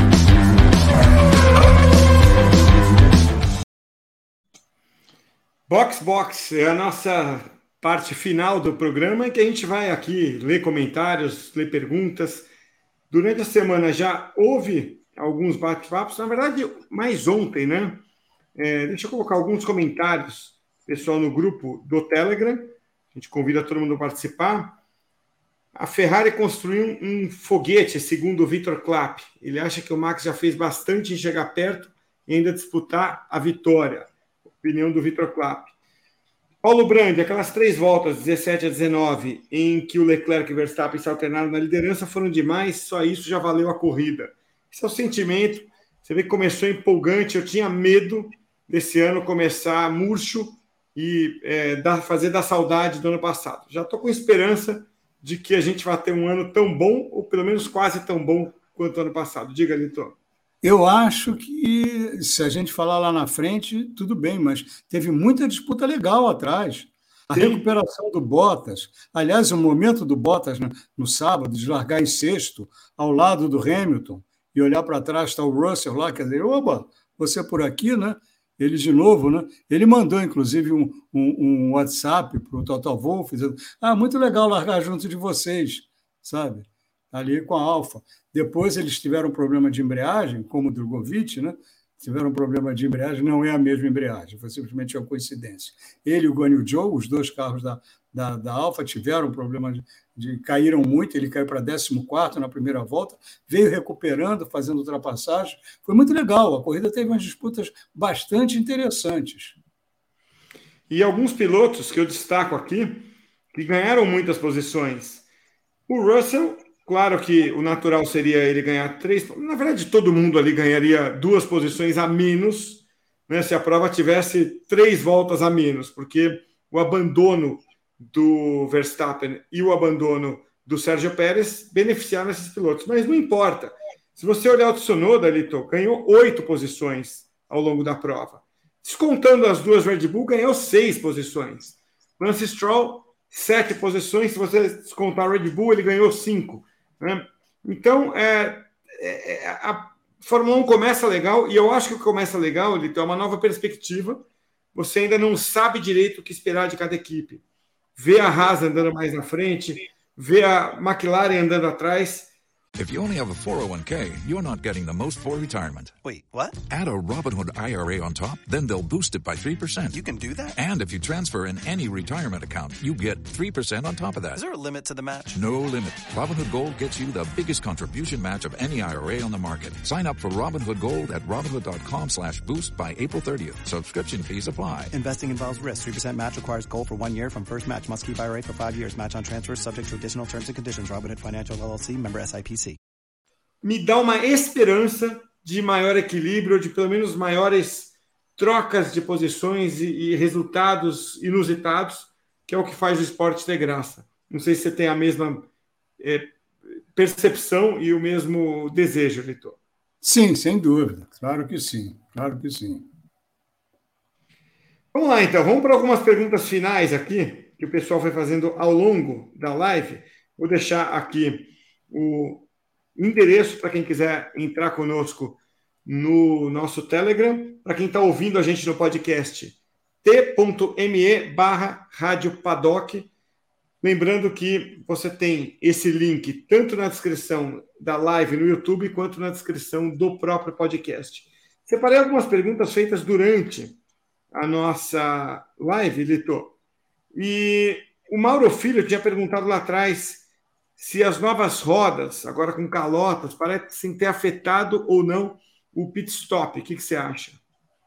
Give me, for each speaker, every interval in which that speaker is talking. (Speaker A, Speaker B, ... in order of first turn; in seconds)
Speaker A: 5.7-12.5, 13.1-18.0, 18.6-24.8, 25.7-35.7, 36.6-60.1, 67.3-67.6, 110.9-115.2, 115.9-157.4, 157.9-162.3, 193.6-205.4, 206.0-206.3, 206.9-209.6, 214.9-233.1, 233.8-243.8, 244.3-246.5, 247.1-250.2, 250.8-257.4
Speaker B: 60.6-109.6, 210.0-212.9
Speaker C: 162.7-165.9, 166.7-174.4, 175.3-184.9
Speaker D: 166.0-166.6, 169.9-170.6, 174.3-175.4, 184.9-192.8